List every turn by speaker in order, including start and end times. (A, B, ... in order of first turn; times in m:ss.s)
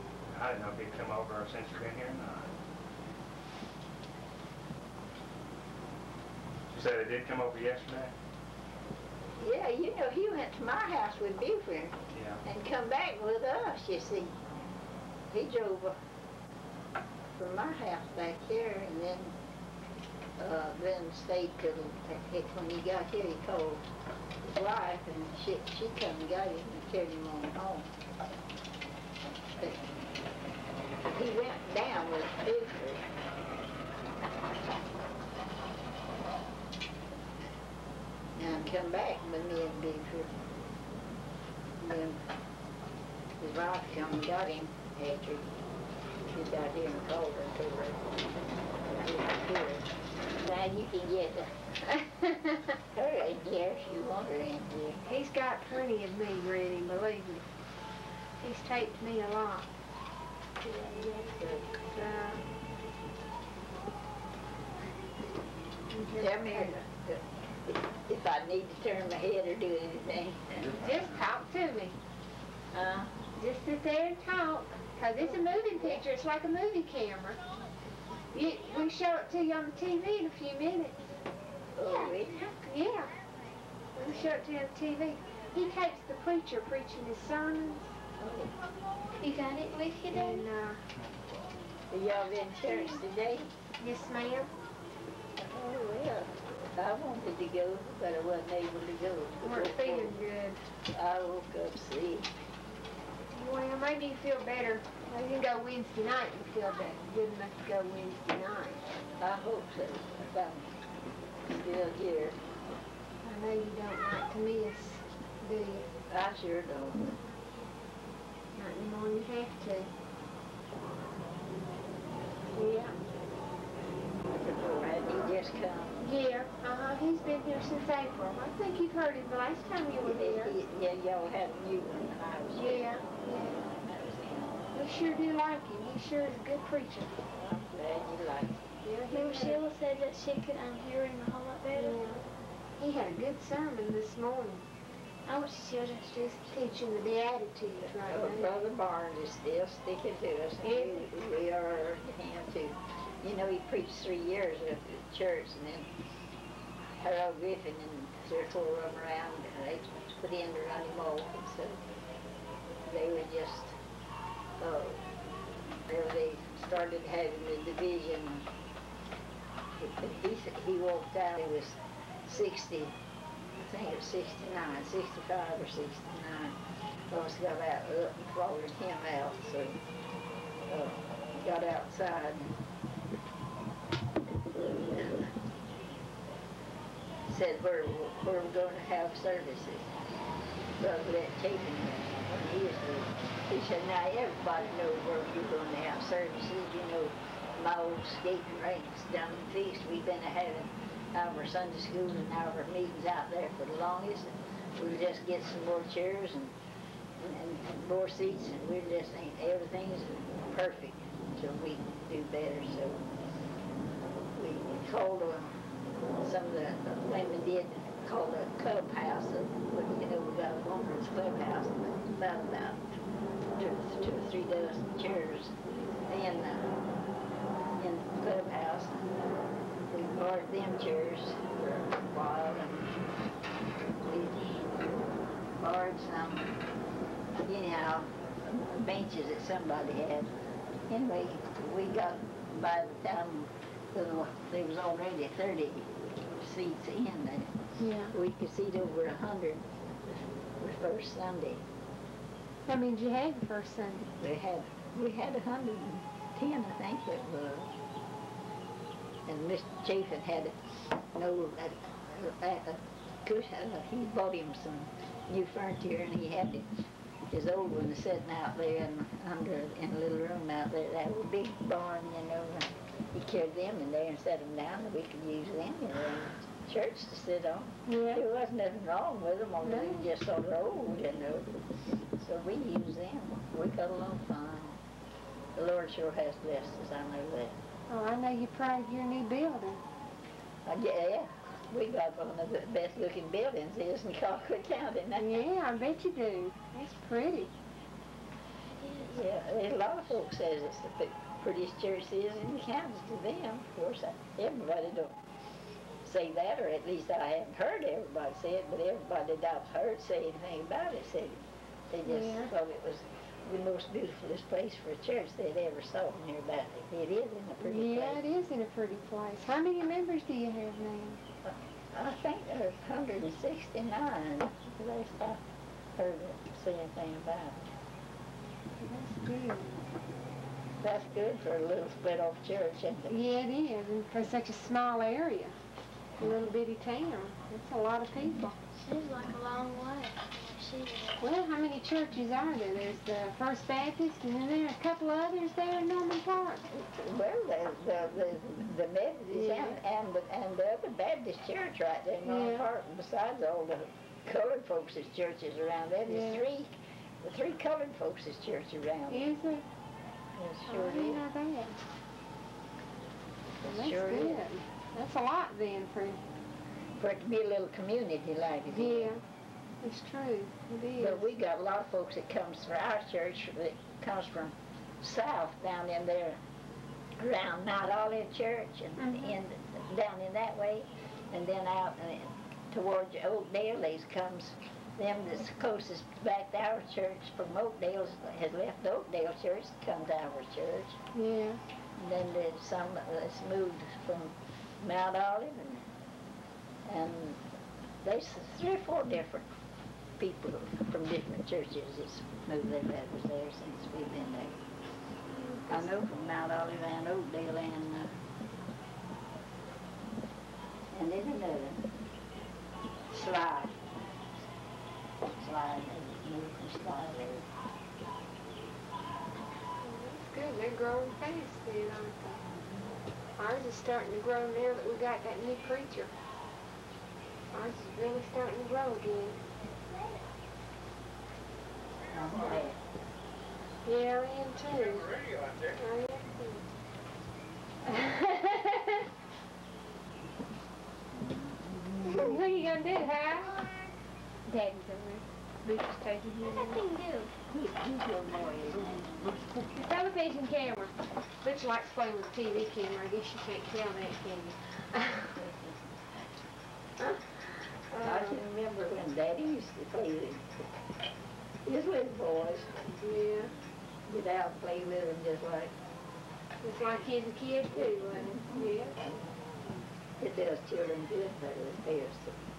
0:00.3-0:02.5 A
0:06.7-0:08.1 A
0:09.4-0:14.4 B
0:12.1-0:12.4 A
0:15.3-0:15.9 B
0:17.4-0:19.3 B
0:20.4-0:23.8 B
0:24.4-0:27.9 B
0:29.6-0:29.9 B
0:31.0-0:33.0 B
0:38.4-0:40.4 B
0:41.8-0:42.2 B
0:43.4-0:45.6 B
0:46.2-0:48.1 B
0:48.9-0:51.6 B
0:52.2-0:52.5 C
0:52.9-0:55.0 B
0:55.0-0:57.5 C
0:58.4-0:59.7 C
1:00.6-1:01.6 B
1:01.9-1:02.4 C
1:05.9-1:06.7 C
1:06.2-1:10.9 B
1:10.6-1:12.0 C
1:12.7-1:13.1 B
1:13.4-1:17.4 C
1:15.7-1:16.0 B
1:18.3-1:21.2 C
1:21.8-1:22.5 B
1:21.8-1:22.5 D
1:22.6-1:23.1 C
1:23.9-1:27.9 C
1:28.2-1:28.5 B
1:29.2-1:30.5 D
1:30.1-1:30.8 C
1:31.9-1:33.5 B
1:32.7-1:33.0 D
1:33.8-1:34.5 C
1:35.4-1:40.1 B
1:39.4-1:40.6 C
1:40.9-1:42.3 B
1:43.3-1:48.8 C
1:49.2-1:50.7 B
1:51.4-1:52.4 B
1:53.2-1:55.9 C
1:56.1-1:57.2 B
1:58.6-1:59.9 C
2:02.5-2:03.0 C
2:04.2-2:06.0 B
2:06.0-2:10.6 C
2:10.0-2:14.6 B
2:12.6-2:13.6 C
2:14.7-2:17.2 C
2:17.3-2:18.6 B
2:18.8-2:19.6 C
2:19.1-2:22.1 D
2:21.7-2:22.2 C
2:22.8-2:24.6 C
2:25.2-2:26.6 D
2:26.5-2:28.5 C
2:27.8-2:35.9 B
2:30.6-2:31.0 C
2:37.0-2:41.8 B
2:42.8-2:43.7 B
2:44.6-2:45.0 B
2:45.8-2:48.5 B
2:49.8-2:52.9 B
2:53.6-2:56.6 B
2:57.1-2:59.8 B
3:00.7-3:02.5 B
3:04.5-3:05.3 B
3:07.3-3:09.9 B
3:10.8-3:26.5 B
3:27.2-3:33.0 B
3:34.4-3:35.6 B
3:36.2-3:42.8 B
3:43.6-3:45.5 B
3:46.1-3:46.7 B
3:47.8-3:49.2 B
3:49.8-3:52.9 B
3:54.0-3:54.7 B
3:55.6-3:56.5 B
3:57.4-4:00.3 B
4:00.9-4:07.5 B
4:07.8-4:08.1 C
4:08.1-4:11.6 B
4:12.6-4:14.1 C
4:14.1-4:17.7 B
4:19.3-4:20.6 B
4:21.1-4:26.7 B
4:27.3-4:41.5 B
4:37.8-4:38.2 C
4:39.6-4:40.1 C
4:42.2-4:44.8 B
4:45.6-4:47.6 B
4:47.9-4:49.8 C
4:50.6-4:55.4 B
4:55.2-4:57.5 C
4:58.8-4:59.1 D
4:59.0-5:05.2 B
5:06.0-5:18.2 B
5:12.0-5:12.5 C
5:17.6-5:21.2 C
5:21.4-5:25.4 B
5:26.0-5:27.7 B
5:28.8-5:29.8 C
5:30.8-5:33.1 B
5:33.1-5:35.5 C
5:36.2-5:38.6 C
5:38.8-5:41.3 D
5:41.2-5:46.6 C
5:46.7-5:56.7 B
5:49.3-5:49.8 C
5:52.2-5:52.7 C
5:56.1-5:56.4 C
5:57.2-5:59.3 B
5:59.1-5:59.6 C
6:00.4-6:01.2 B
6:00.7-6:01.8 C
6:03.6-6:04.4 B
6:03.6-6:06.2 C
6:07.0-6:09.1 B
6:08.7-6:09.2 C
6:09.8-6:11.3 C
6:11.0-6:16.4 B
6:17.2-6:31.0 B
6:19.0-6:19.3 C
6:31.1-6:31.6 C
6:32.0-6:35.8 B
6:36.8-6:37.4 B
6:38.0-6:39.5 B
6:40.2-6:44.6 B
6:45.5-6:45.8 D
6:45.7-6:48.1 B
6:50.9-6:51.8 B
6:53.1-6:53.8 B
6:55.4-6:57.5 B
6:59.8-7:02.4 C
7:03.4-7:06.1 C
7:07.5-7:09.4 C
7:12.1-7:12.8 B
7:13.8-7:16.6 C
7:17.8-7:19.0 C
7:21.3-7:22.3 B
7:22.0-7:23.6 C
7:23.4-7:23.8 D
7:24.4-7:26.8 C
7:26.4-7:27.3 D
7:27.5-7:29.8 B
7:29.8-7:35.4 C
7:37.9-7:38.4 C
7:37.9-7:40.5 B
7:41.6-7:42.8 B
7:43.0-7:43.5 C
7:44.1-7:45.7 B
7:46.6-7:49.0 C
7:50.2-7:52.4 B